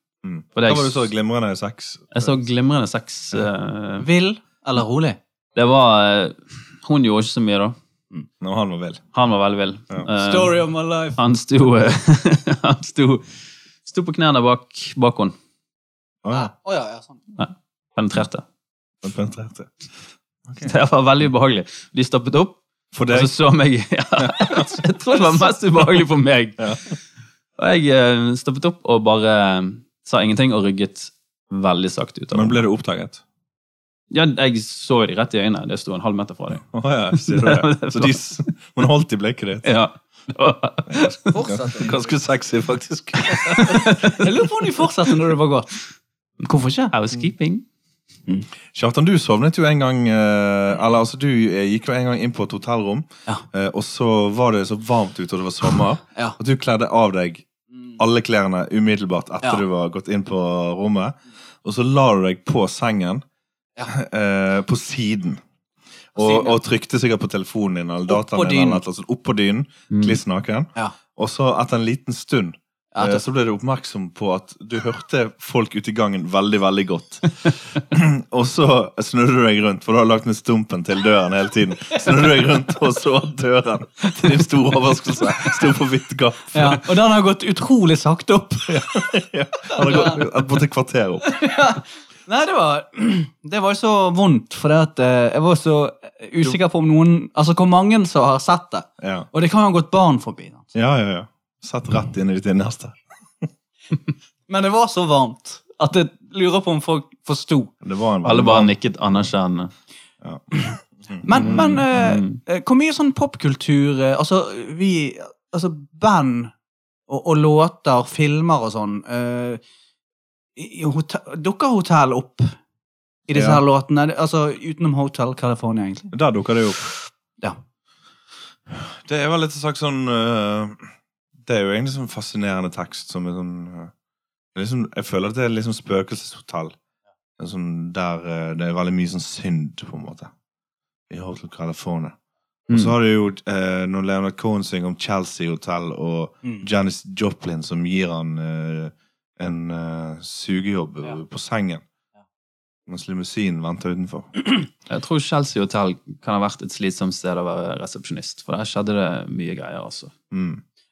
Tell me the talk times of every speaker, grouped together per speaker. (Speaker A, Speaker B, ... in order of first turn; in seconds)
Speaker A: 0.2-2.4, 8.4-9.0, 16.2-16.5, 19.0-19.7, 22.9-23.3, 24.2-24.7, 32.3-33.2, 36.6-39.7, 40.9-43.9, 48.7-57.5, 58.0-63.2, 63.9-65.4, 66.1-86.8, 88.7-91.3, 99.0-99.3, 100.7-103.0, 107.8-108.7, 110.2-111.9, 123.3-123.6, 126.1-126.9, 128.7-130.8, 131.4-133.9, 134.5-136.7, 137.4-140.3, 141.1-142.2, 142.7-151.8, 152.9-154.3, 160.3-160.6
Speaker B: 0.5-1.1, 2.1-4.1, 5.5-7.8, 9.1-10.6, 11.2-13.2, 13.8-15.3, 17.4-18.4, 20.6-22.6, 23.1-27.0, 27.6-32.6, 34.1-38.3, 39.6-41.5, 43.2-44.9, 46.9-47.6, 69.9-70.2, 108.2-109.7, 111.3-112.4, 154.9-160.1
Speaker C: 4.0-5.2, 10.1-11.2, 16.3-17.2, 41.3-42.1, 43.7-45.7, 46.4-46.9, 66.2-66.5, 68.1-68.8, 72.9-73.2, 86.5-88.8, 89.7-90.2, 91.2-100.7, 104.5-107.7, 111.2-116.5, 117.1-119.6, 120.5-122.5, 123.3-126.1